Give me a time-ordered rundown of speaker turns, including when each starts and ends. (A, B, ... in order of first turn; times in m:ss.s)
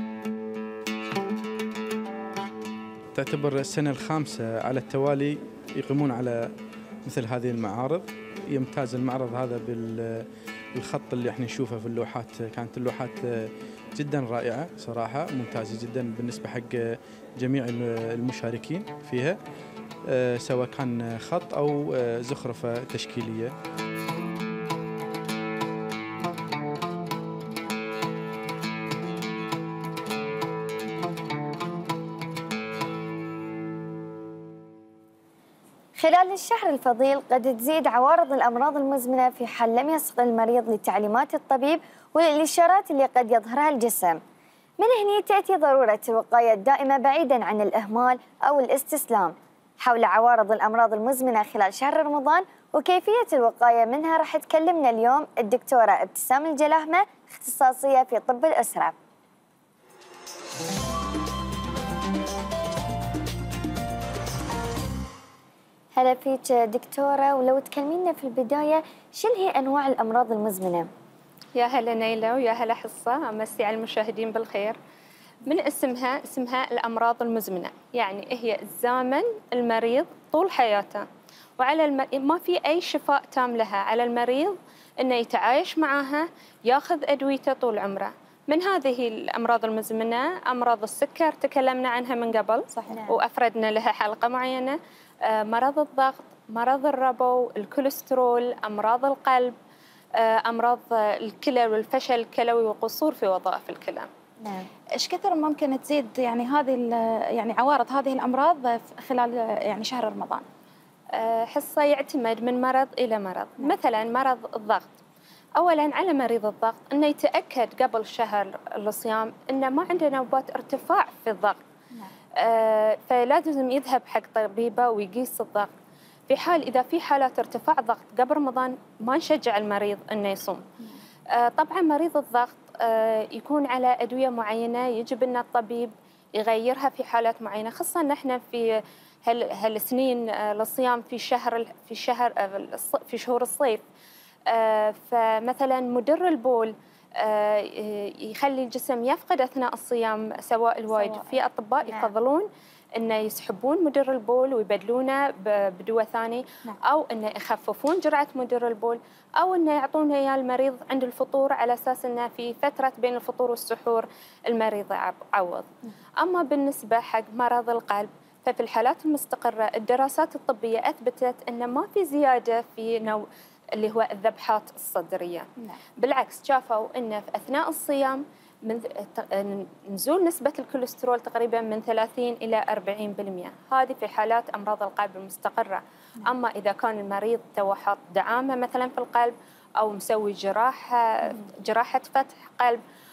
0:03.1-0:06.5 A
0:07.0-0:19.4 A
0:20.0-0:23.5 A
0:36.0-0:44.2 B
0:44.8-0:58.9 B
1:05.9-1:10.9 B
1:11.5-1:14.8 C
1:15.4-1:21.0 C
1:21.6-1:39.5 C
1:32.7-1:33.0 D
1:32.9-1:33.2 B
1:40.1-1:44.1 C
1:44.4-1:44.7 B
1:45.0-1:50.4 D
1:51.1-1:54.9 C
1:55.6-2:01.6 C
2:02.4-2:05.7 C
2:06.3-2:10.6 C
2:11.3-2:23.8 C
2:24.5-2:45.7 C
2:30.9-2:31.4 D
2:31.8-2:32.1 B
2:46.2-3:12.8 C